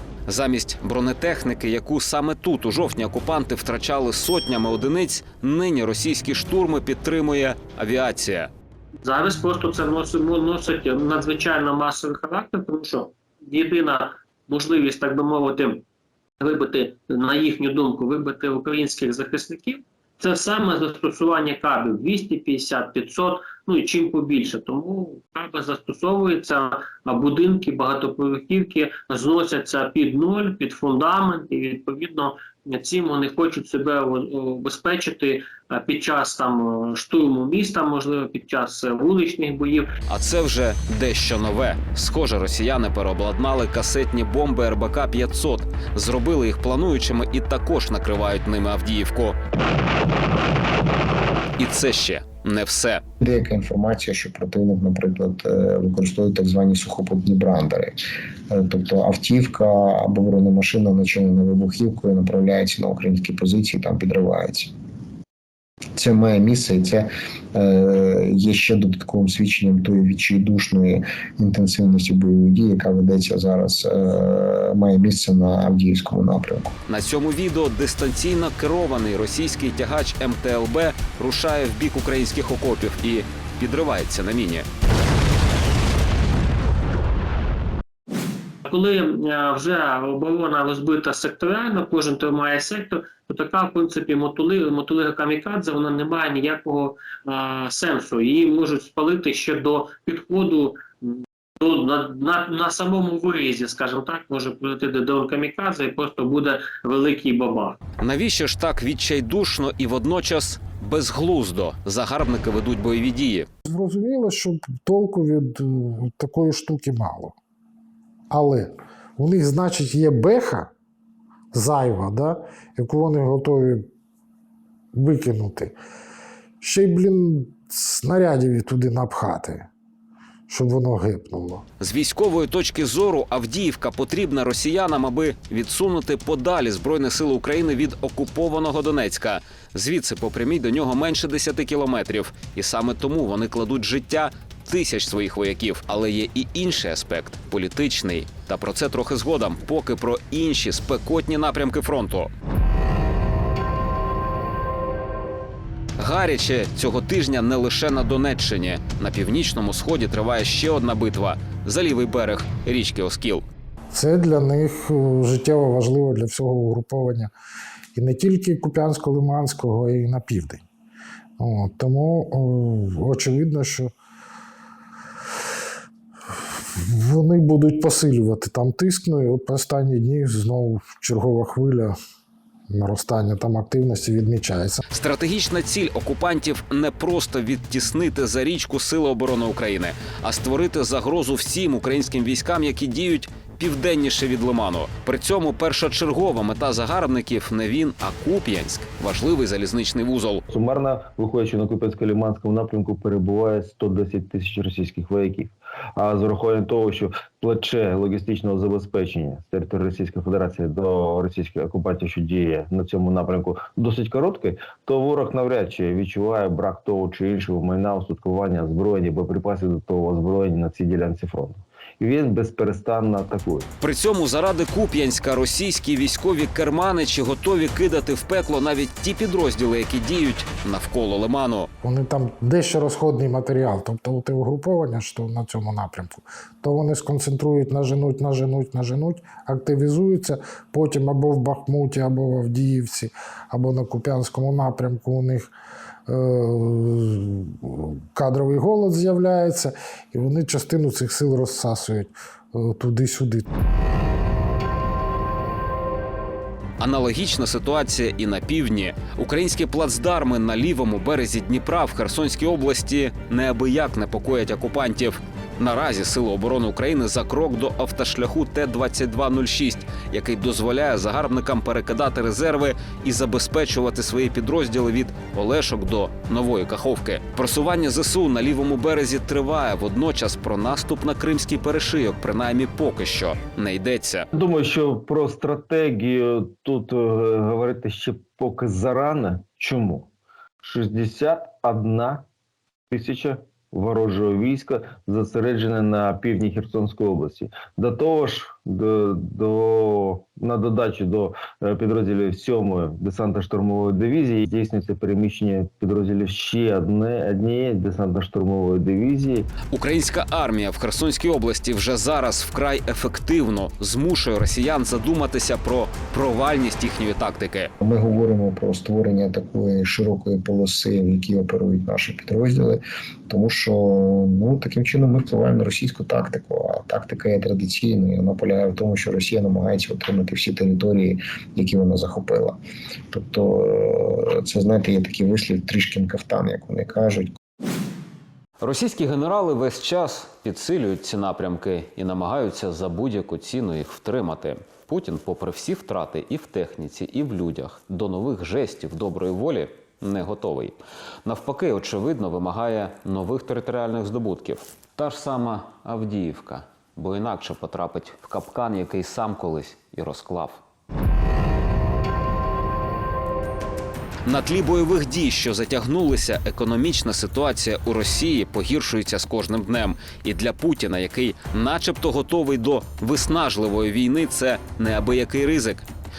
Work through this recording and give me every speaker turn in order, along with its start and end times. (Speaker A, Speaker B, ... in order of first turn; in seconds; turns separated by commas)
Speaker A: 0.3-8.5, Speaker B: 9.0-15.8, Speaker B: 16.4-39.9, Speaker A: 40.1-49.4, Speaker A: 51.6-53.0, Speaker C: 53.2-58.0, Speaker C: 58.5-64.7, Speaker C: 66.0-76.7, Speaker A: 76.9-84.7, Speaker B: 88.7-107.8, Speaker A: 108.0-113.5, Speaker D: 113.7-117.4, Speaker D: 118.3-120.7, Speaker D: 121.5-123.9, Speaker D: 125.0-125.8, Speaker D: 126.6-129.7, Speaker D: 130.5-131.6, Speaker A: 131.8-152.3, Speaker A: 156.0-163.4, Speaker D: 163.9-167.3, Speaker D: 168.0-170.6, Speaker D: 171.4-173.9, Speaker D: 176.8-182.0, Speaker D: 182.7-184.8, Speaker A: 184.9-200.4, Speaker E: 200.5-223.7, Speaker A: 223.8-231.7, Speaker D: 231.8-245.5, Speaker D: 246.1-253.5, Speaker A: 256.8-284.3, Speaker E: 284.3-290.1, Speaker E: 290.6-292.2, Speaker E: 292.9-309.5, Speaker A: 309.7-317.7, Speaker C: 317.8-332.6, Speaker C: 333.1-337.3, Speaker A: 338.6-360.6, Speaker A: 364.2-375.9